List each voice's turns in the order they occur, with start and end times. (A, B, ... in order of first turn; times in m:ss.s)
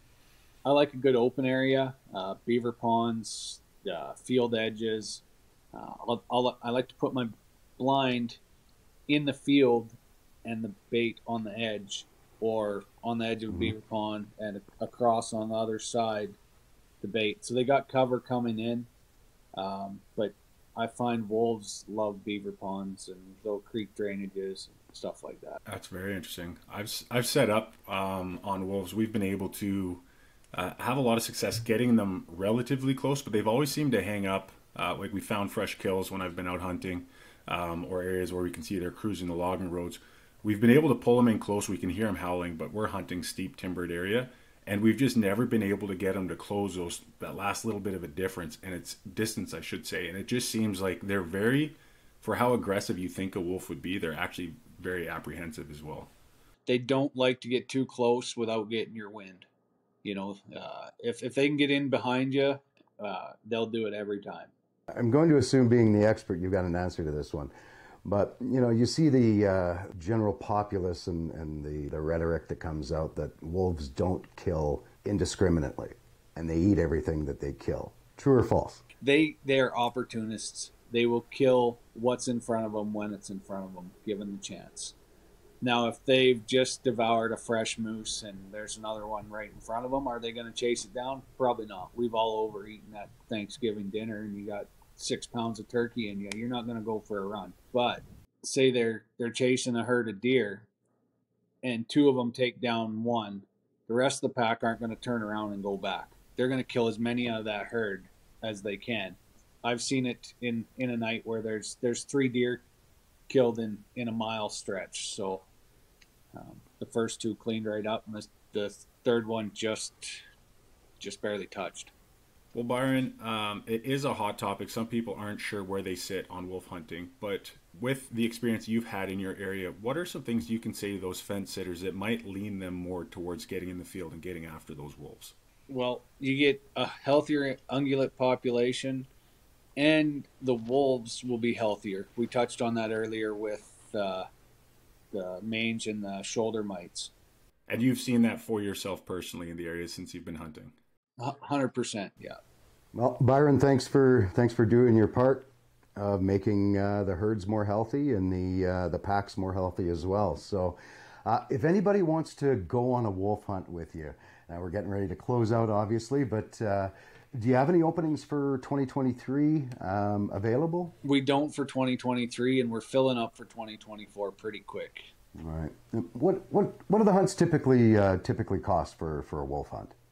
0:00.6-0:08.4 A
0:09.1-0:16.4 A
0:17.0-0:18.9 A
0:19.6-0:25.6 A
0:25.6-0:56.1 B
0:56.6-0:59.5 A
1:00.0-1:04.5 A
1:04.9-1:07.5 C
1:08.0-1:18.8 C
1:19.0-1:24.9 A
1:25.6-1:40.7 A
1:41.6-1:52.6 A
1:53.3-1:55.4 A
1:56.3-2:00.2 A
2:01.0-2:01.9 A
2:02.5-2:15.3 B
2:15.7-2:19.1 A
2:19.8-2:24.3 A
2:25.1-2:27.1 A
2:27.7-2:30.8 B
2:31.2-2:32.4 A
2:32.9-2:50.9 C
2:51.0-2:55.1 A
2:55.4-2:59.9 C